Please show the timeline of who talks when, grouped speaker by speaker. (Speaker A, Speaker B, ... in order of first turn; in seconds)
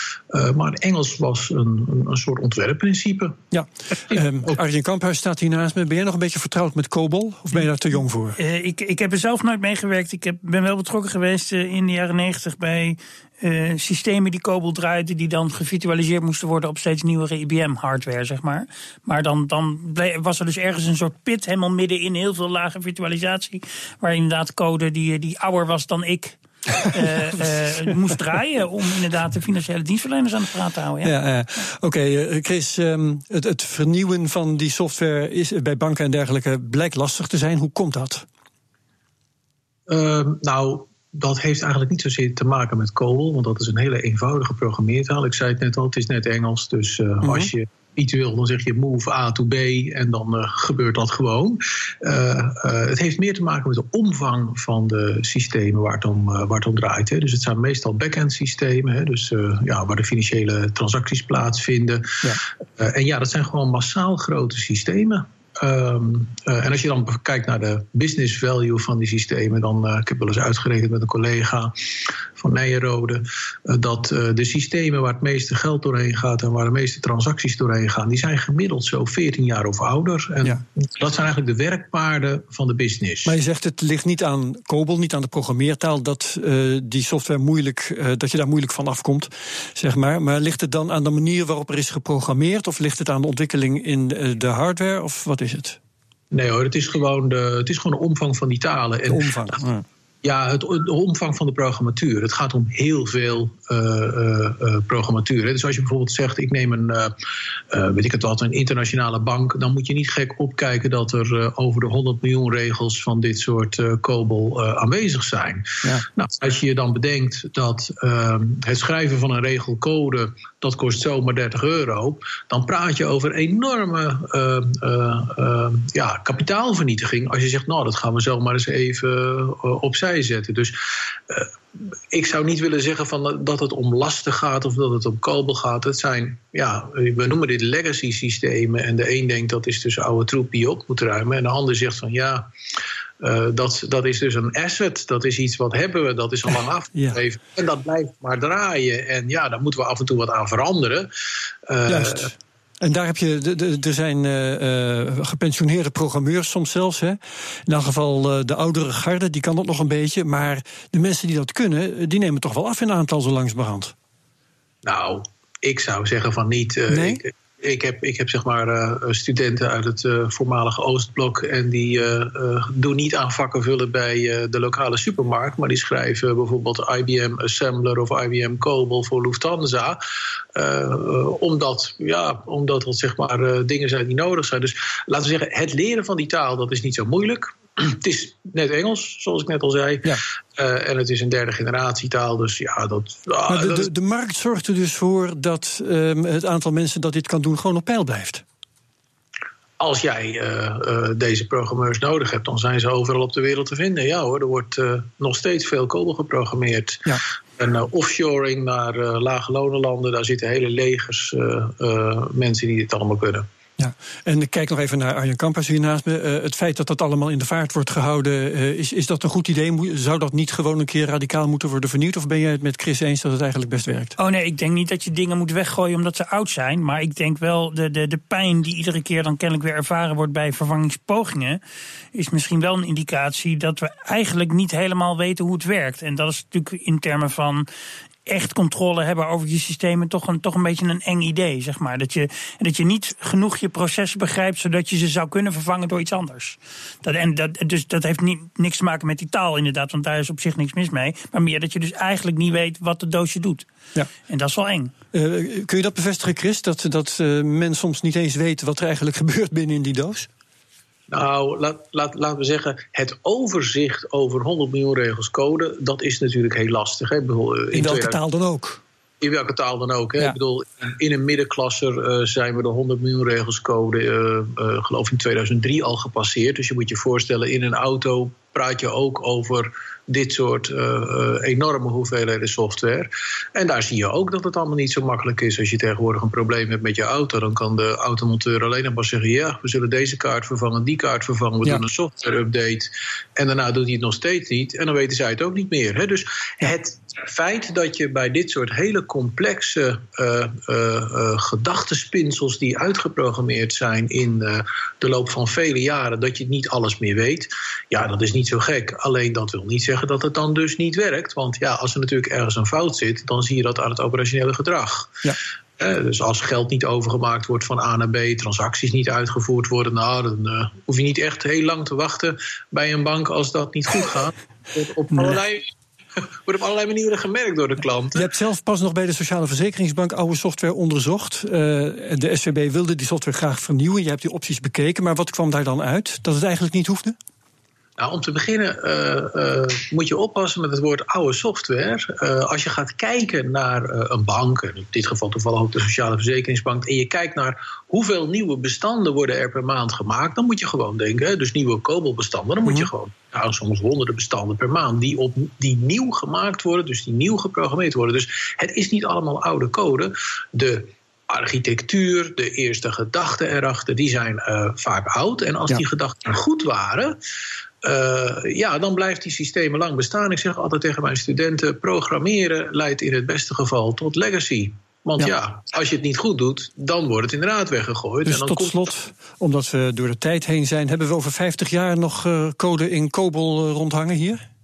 Speaker A: 0.3-3.4, 39.9-62.2, 62.8-71.7, 72.4-83.3, 96.3-99.3, 100.2-107.2, 107.7-130.8, 131.3-131.5, 132.1-142.5, 143.2-151.1, 151.7-152.3, 164.8-180.0, 180.5-193.9, 199.8-213.5, 261.1-268.2, 269.2-315.2, 315.8-325.7, 326.5-328.3, 338.0-367.2, 367.8-378.8
Speaker B: 3.5-8.4, 26.8-27.1, 31.0-38.3, 47.2-47.5, 83.2-95.8, 99.1-99.8, 151.9-163.9, 166.9-167.2, 193.5-198.4, 213.8-224.2, 255.1-260.3, 267.7-268.8, 328.1-337.2, 378.2-384.4
Speaker C: 8.4-31.1, 224.2-231.6, 232.1-237.7, 238.3-253.7, 254.3-254.9